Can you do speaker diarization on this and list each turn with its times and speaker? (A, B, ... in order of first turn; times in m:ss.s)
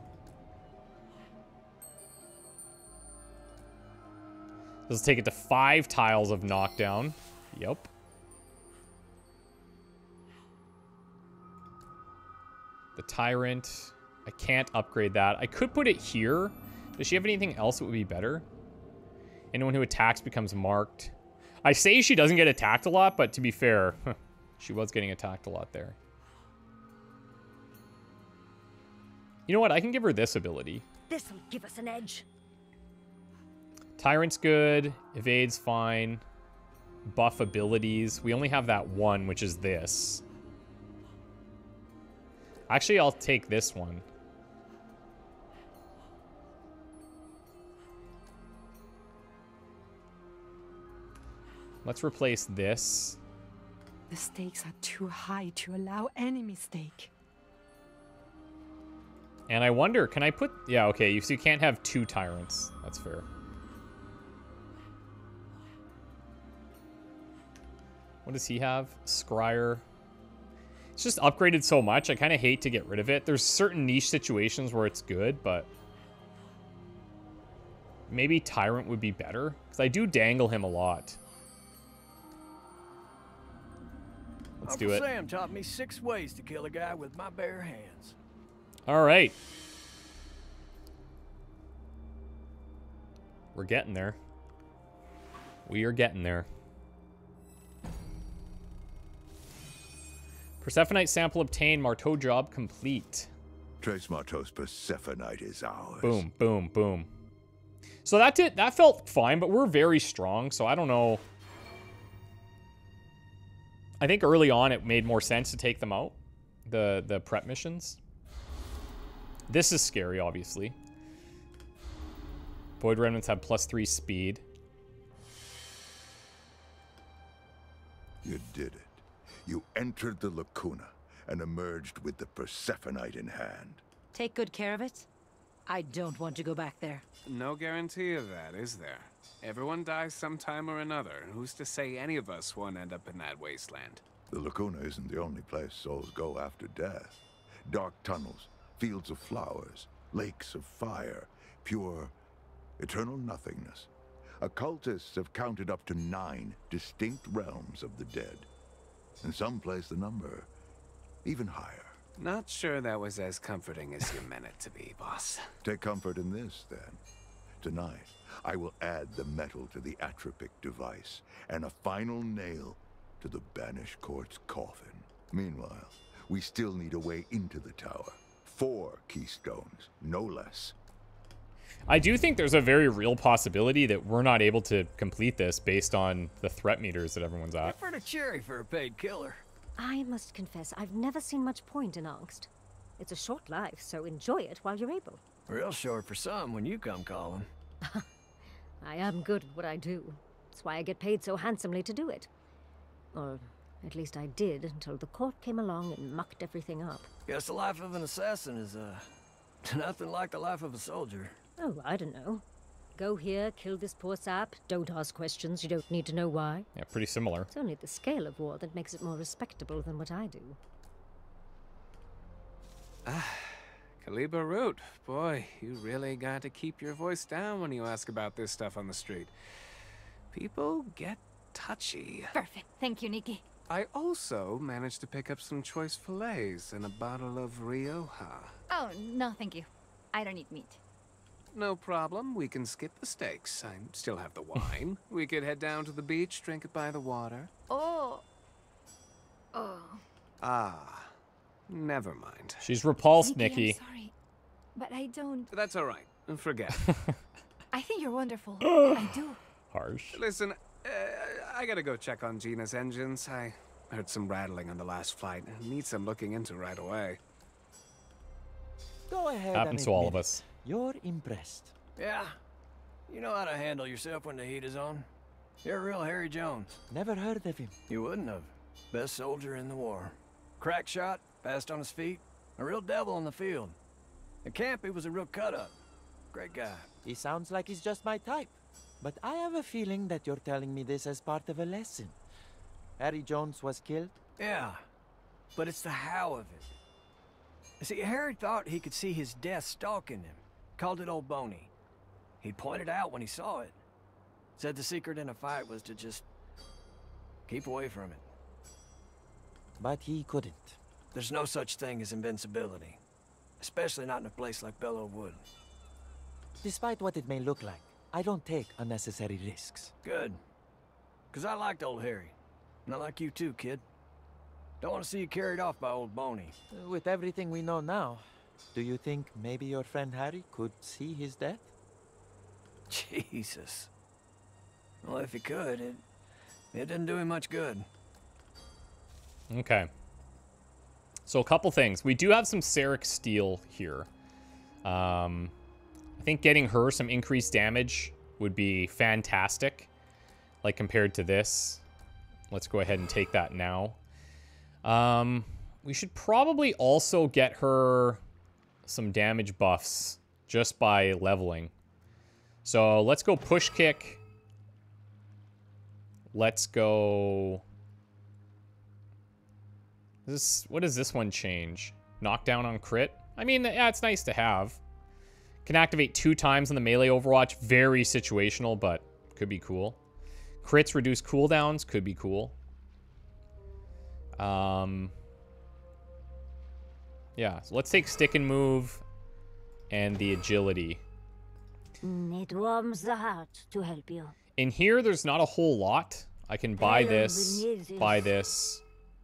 0:04.9-0:07.9 A
0:13.0-0:18.4 A
0:19.5-0:21.1 A
0:21.6-0:26.0 A
0:29.5-0:30.8 A
0:31.1-0:32.2 B
0:34.0-0:36.2 A
0:37.1-0:40.2 A
0:42.7-0:44.0 A
0:51.8-0:53.2 A
0:54.1-0:57.1 C
0:59.5-1:03.2 A
1:08.2-1:09.8 A
1:11.0-1:15.7 A
1:18.1-1:21.2 A
1:24.6-1:25.0 A
1:24.6-1:28.2 D
1:28.9-1:29.4 A
1:33.5-1:34.2 A
1:35.6-1:36.5 A
1:40.6-1:43.3 A
1:43.8-1:46.2 E
1:46.0-1:47.1 A
1:48.0-1:51.2 A
1:54.0-1:58.0 A
1:59.5-2:00.8 A
2:02.8-2:04.4 A
2:08.2-2:13.8 E
2:14.1-2:15.1 F
2:15.6-2:17.0 F
2:17.3-2:24.0 G
2:24.3-2:32.1 E
2:32.8-2:33.9 E
2:34.4-2:38.5 E
2:39.2-2:40.5 E
2:41.2-2:42.0 E
2:42.2-2:45.4 G
2:45.6-2:47.0 E
2:47.6-3:00.7 E
3:01.9-3:07.8 A
3:07.6-3:09.4 D
3:09.8-3:15.2 B
3:15.5-3:17.5 D
3:18.8-3:22.3 B
3:23.1-3:27.1 B
3:27.3-3:29.1 D
3:29.6-3:31.4 D
3:31.6-3:32.4 B
3:33.0-3:36.7 B
3:36.7-3:37.5 A
3:37.5-3:40.6 B
3:43.1-3:43.4 G
3:44.0-3:49.3 G
3:50.3-3:52.2 G
3:52.3-3:53.4 H
3:53.7-3:58.5 G
3:58.7-4:00.8 H
4:01.5-4:07.5 G
4:07.7-4:08.2 H
4:09.5-4:10.0 H
4:10.4-4:11.1 G
4:11.7-4:12.6 G
4:12.6-4:13.8 A
4:13.2-4:14.1 H
4:14.7-4:15.5 H
4:15.5-4:16.8 G
4:17.7-4:19.4 H
4:18.6-4:19.2 A
4:19.7-4:20.2 A
4:20.1-4:27.2 G
4:29.1-4:31.7 I
4:29.5-4:30.4 A
4:32.0-4:32.4 D
4:33.1-4:35.1 D
4:35.6-4:36.7 D
4:36.9-4:37.8 I
4:37.9-4:43.8 D
4:44.4-4:45.7 D
4:46.3-4:46.9 D
4:47.0-4:52.2 I
4:53.0-4:54.1 I
4:54.4-4:54.8 D
4:55.5-4:56.7 D
4:57.8-5:01.7 D
5:02.4-5:03.8 D
5:04.6-5:06.2 D
5:07.5-5:08.2 D
5:09.8-5:10.8 I
5:11.1-5:13.0 D
5:13.6-5:15.4 D
5:16.6-5:19.9 I
5:20.0-5:20.4 D
5:21.3-5:22.3 D
5:22.8-5:23.8 D
5:24.8-5:26.6 D
5:26.7-5:28.2 I
5:28.7-5:31.7 I
5:32.9-5:33.9 D
5:35.0-5:36.0 D
5:36.7-5:37.9 D
5:39.5-5:39.9 A
5:41.2-5:44.1 A
5:44.8-5:45.5 A
5:46.2-5:49.9 A
5:50.6-5:51.8 A
5:52.5-5:54.0 A
5:54.8-5:58.2 A
5:58.8-6:01.7 A
6:02.6-6:04.2 A
6:06.3-6:07.6 A
6:10.2-6:14.8 A
6:15.6-6:20.0 A
6:20.6-6:22.6 A
6:24.4-6:25.1 A
6:27.4-6:29.0 A
6:29.9-6:31.0 A
6:32.0-6:34.3 B
6:34.6-6:38.8 A
6:36.8-6:38.3 B